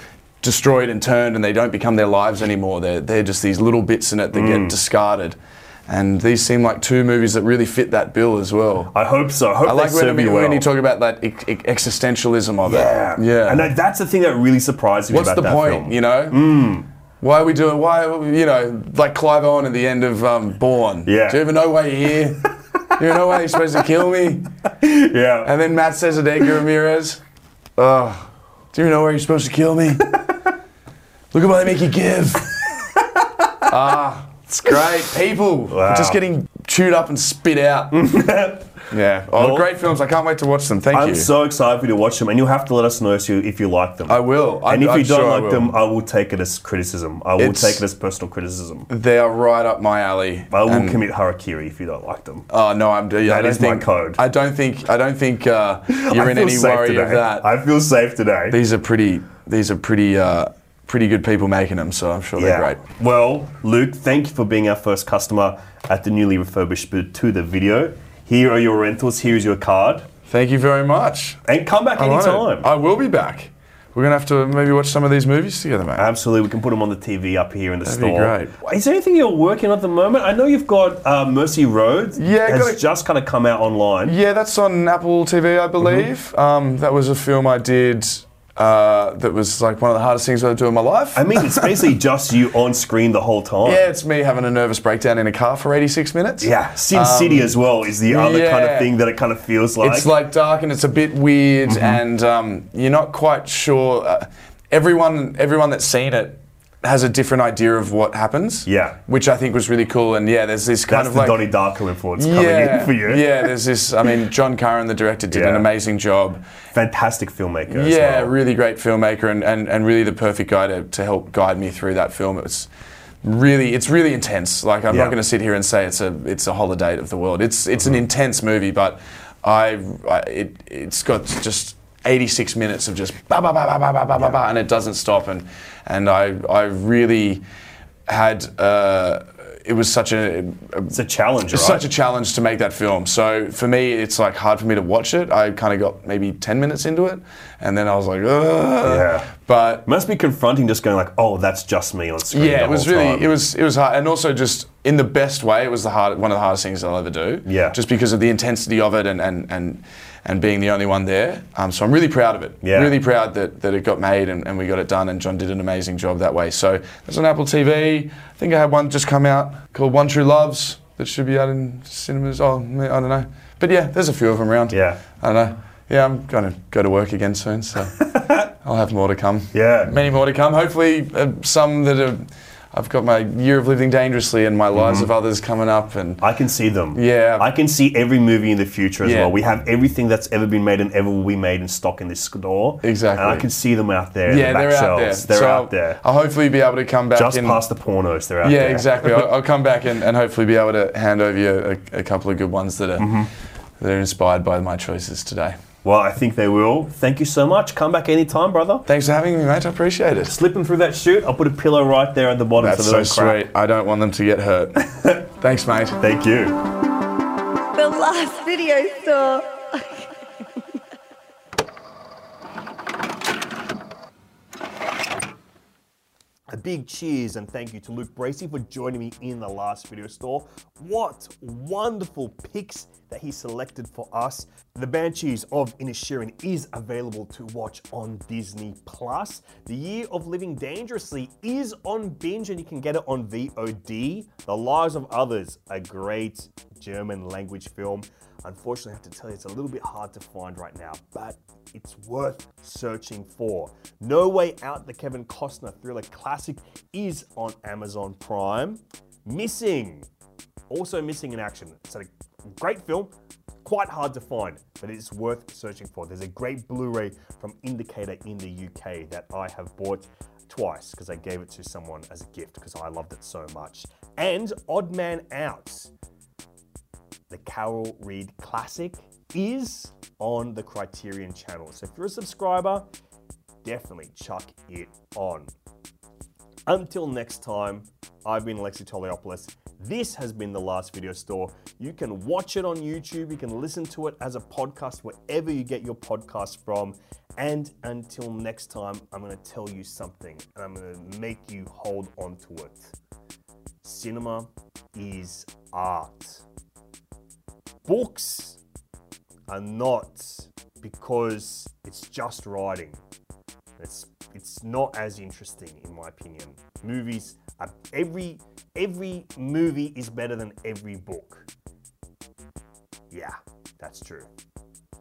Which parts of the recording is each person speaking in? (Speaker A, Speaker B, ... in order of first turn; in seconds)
Speaker A: 0.4-5.4, 5.9-8.9, 9.6-13.7, 15.1-16.5, 17.2-24.5, 25.4-27.2, 27.8-30.2, 31.3-32.5, 33.7-38.2, 38.9-41.3, 44.1-45.8, 47.4-47.8, 48.9-51.0, 52.5-57.5, 58.5-62.8, 70.3-71.4, 72.0-76.1, 77.8-78.5, 82.2-82.8, 84.0-91.8, 93.7-97.5, 98.1-98.9, 99.8-111.5, 112.2-116.4, 117.7-122.7, 123.2-137.4, 138.1-140.9, 141.5-149.9, 152.3-186.2, 186.9-187.5, 189.0-189.3, 192.8-193.5, 194.3-197.6, 198.4-203.3, 203.8-205.6, 208.9-210.3, 212.6-216.0
Speaker B: 4.3-4.8, 8.9-10.7, 12.6-16.9, 21.1-21.4, 24.7-25.5, 32.6-33.7, 35.7-36.2, 37.9-38.8, 39.4-39.6, 40.9-48.9, 50.5-52.5, 53.3-54.2, 55.9-58.6, 62.4-70.1, 71.5-72.7, 76.0-84.2, 91.2-93.8, 96.4-100.1, 101.7-102.0, 108.7-109.0, 110.9-113.5, 115.3-115.7, 116.7-118.3, 124.9-125.2, 140.9-141.8, 148.8-149.3, 149.9-153.3, 157.5-157.8, 162.6-163.0, 174.7-175.0, 178.0-178.4, 179.5-180.0, 184.7-185.1, 186.2-196.0, 197.1-199.3, 203.0-203.3, 205.8-208.8, 210.3-213.4, 216.0-216.6, 226.5-260.1, 260.7-263.1, 263.6-275.9, 277.3-282.9, 283.6-285.5, 286.7-302.9, 303.8-306.4, 307.9-308.6, 309.5-313.0, 313.8-321.5, 323.1-324.3
Speaker C: 217.7-220.0